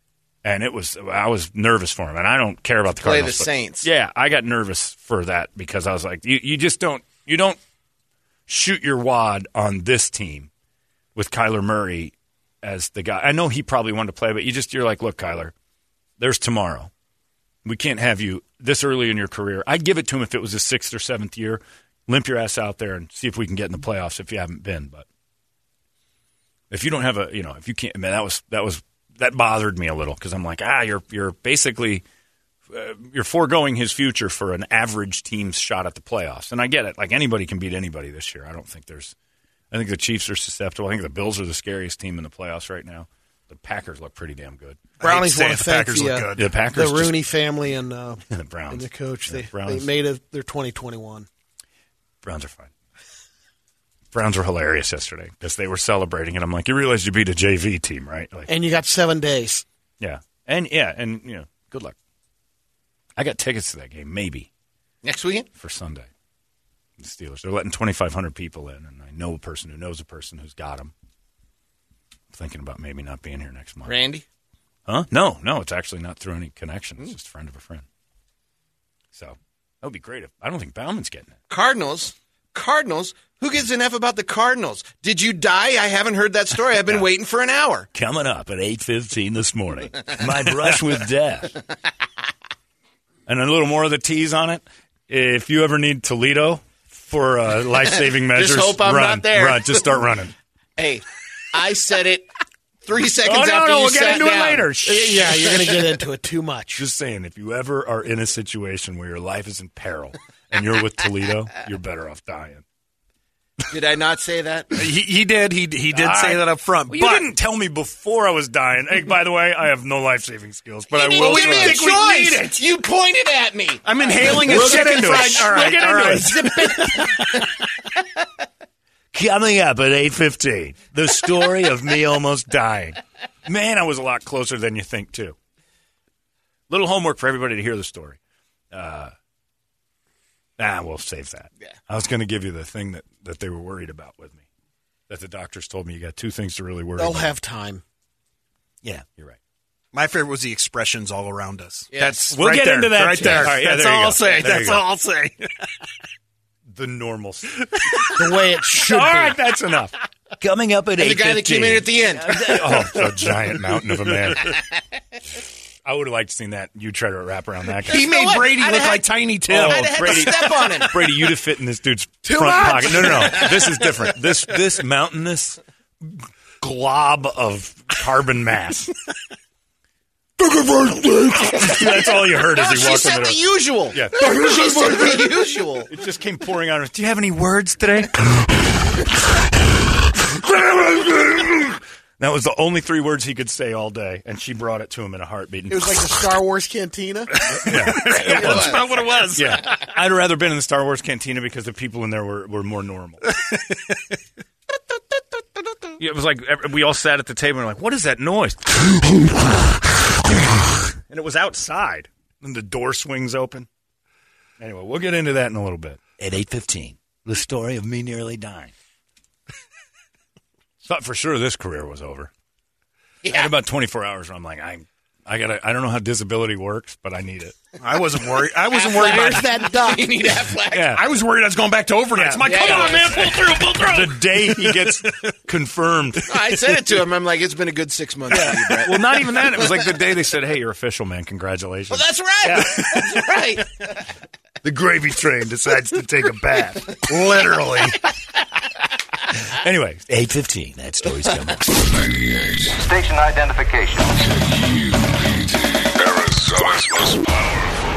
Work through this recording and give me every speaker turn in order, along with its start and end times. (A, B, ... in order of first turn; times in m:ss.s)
0:00.4-0:07.6 A
0:03.0-0:03.9 B
0:08.5-0:10.5 A
0:11.1-0:15.5 A
0:16.2-0:16.9 A
0:17.6-0:25.0 A
0:26.7-0:32.0 A
0:32.7-0:39.1 A
0:39.7-0:44.9 A
0:45.0-0:46.6 C
0:45.0-0:51.3 D
0:46.4-0:47.3 A
0:48.3-0:49.9 A
0:52.2-0:52.7 A
0:54.1-0:58.5 A
0:58.5-0:59.6 D
1:00.0-1:01.9 A
1:03.2-1:04.5 A
1:05.0-1:05.5 B
1:05.6-1:06.1 A
1:07.0-1:10.9 A
1:12.3-1:13.9 A
1:13.8-1:14.2 B
1:14.9-1:17.8 A
1:19.1-1:21.3 A
1:21.5-1:27.9 B
1:27.9-1:31.6 A
1:33.3-1:40.3 A
1:38.2-1:40.1 B
1:40.8-1:42.3 B
1:42.8-1:44.7 B
1:43.2-1:45.6 A
1:44.8-1:46.8 D
1:46.8-1:52.6 A
1:53.7-1:54.8 B
1:54.7-1:57.3 C
1:55.9-2:02.6 A
2:00.9-2:05.5 B
2:01.2-2:02.4 C
2:03.8-2:06.7 C
2:04.2-2:07.5 A
2:06.5-2:07.5 B
2:09.1-2:15.3 A
2:16.7-2:18.2 A
2:18.7-2:19.1 A
2:20.6-2:24.4 A
2:25.1-2:27.3 A
2:27.0-2:27.8 D
2:28.8-2:29.4 A
2:29.9-2:35.6 C
2:31.9-2:32.2 B
2:32.2-2:34.8 A
2:33.2-2:33.5 B
2:34.2-2:34.6 B
2:36.7-2:44.6 A
2:38.2-2:39.4 D
2:41.0-2:43.0 B
2:45.8-2:48.1 A
2:47.8-2:50.4 C
2:47.9-2:50.9 B
2:49.5-2:58.9 A
2:52.2-2:54.0 B
3:00.4-3:03.4 A
3:01.8-3:05.9 B
3:03.9-3:05.3 A
3:05.9-3:08.6 A
3:10.2-3:16.3 A
3:15.7-3:17.4 D
3:17.4-3:23.2 A
3:17.7-3:19.8 C
3:18.0-3:19.8 B
3:26.0-3:33.7 A
3:34.6-3:38.7 A
3:40.8-3:42.3 A
3:43.2-3:43.5 B
3:43.2-3:47.6 A
3:47.8-3:49.6 C
3:48.7-3:50.9 B
3:49.0-3:50.2 D
3:50.7-3:51.0 A
3:50.9-3:53.6 C
3:52.1-3:56.8 A
3:52.4-3:54.7 B
3:56.2-3:59.9 B
3:58.3-4:03.4 A
4:01.9-4:04.0 B
4:04.6-4:07.2 A
4:07.0-4:08.0 C
4:09.5-4:12.2 A
4:12.8-4:15.3 E
4:16.0-4:16.9 E